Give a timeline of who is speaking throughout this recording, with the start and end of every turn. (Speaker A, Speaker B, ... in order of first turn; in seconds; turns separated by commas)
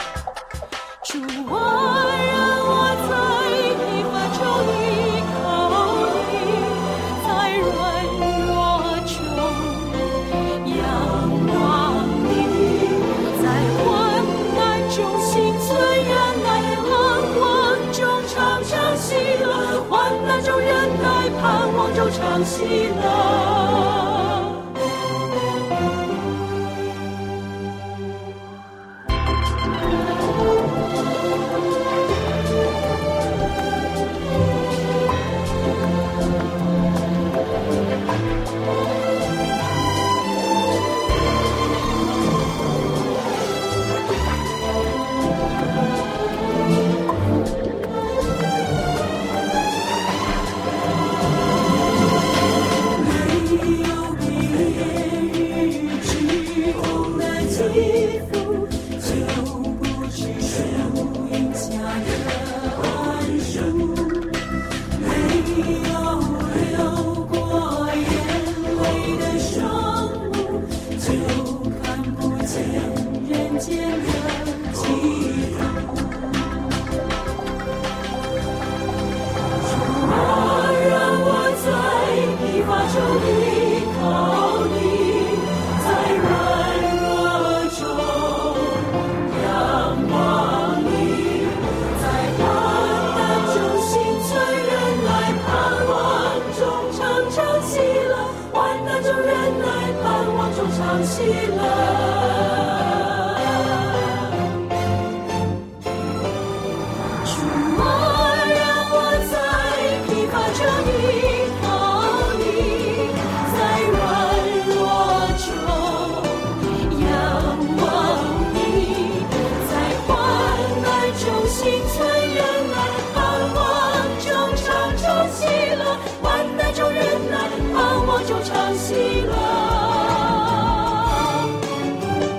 Speaker A: 1.0-24.6, Speaker A: 52.9-75.9, Speaker A: 79.7-103.0, Speaker A: 107.2-131.4